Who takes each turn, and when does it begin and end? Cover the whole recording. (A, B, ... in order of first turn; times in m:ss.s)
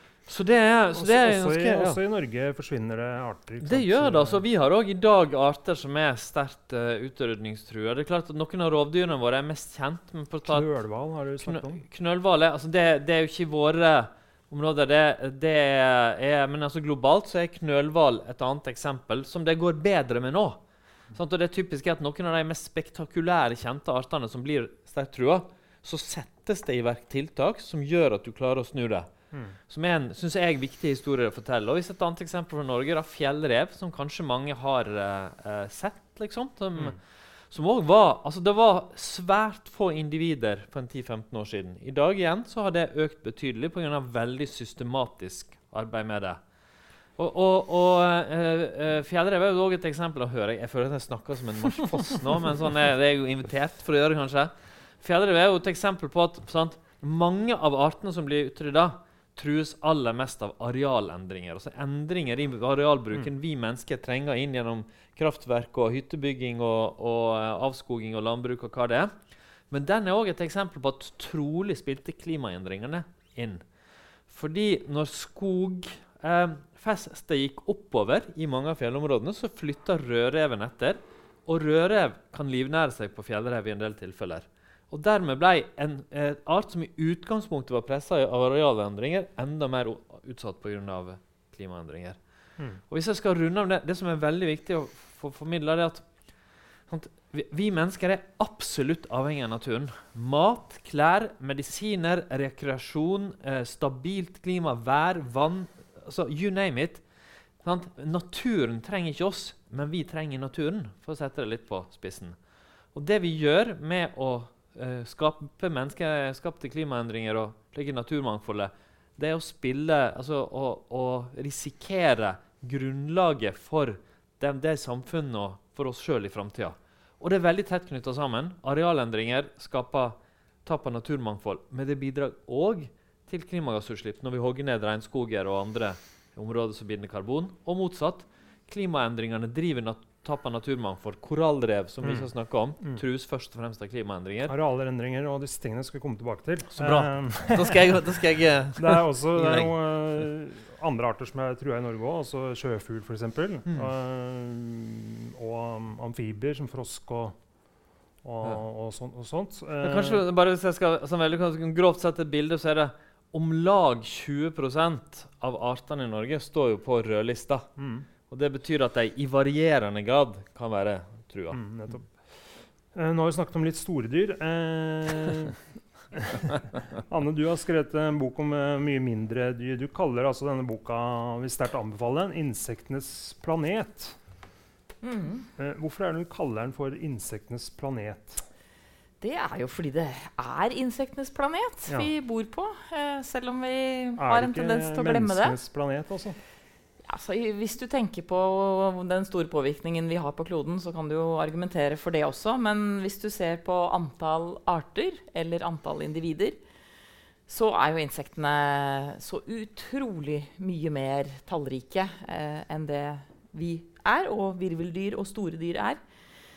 0:00.3-0:02.0 A
0:00.9-0:04.4 B
0:03.6-0:10.7 A
0:10.4-0:11.8 B
0:11.4-0:20.6 A
0:21.1-0:29.1 A
0:29.7-0:37.0 A
0:37.5-0:46.4 A
0:47.2-1:09.1 A
1:09.7-1:13.6 A
1:14.3-1:32.2 A
1:32.9-1:36.0 A
1:36.9-1:47.0 A
1:47.6-1:52.4 A
1:52.9-2:24.5 A
2:22.0-2:22.3 B
2:24.5-2:28.0 B
2:26.8-2:29.7 A
2:28.8-2:37.4 B
2:38.2-2:40.2 B
2:39.8-2:47.7 A
2:47.8-2:48.1 B
2:48.3-2:51.6 A
2:51.5-2:55.6 B
2:56.1-3:04.2 B
3:05.0-3:05.5 C
3:05.6-3:08.4 B
3:09.2-3:15.6 C
3:14.2-3:16.4 B
3:17.0-3:26.6 C
3:27.5-3:36.0 C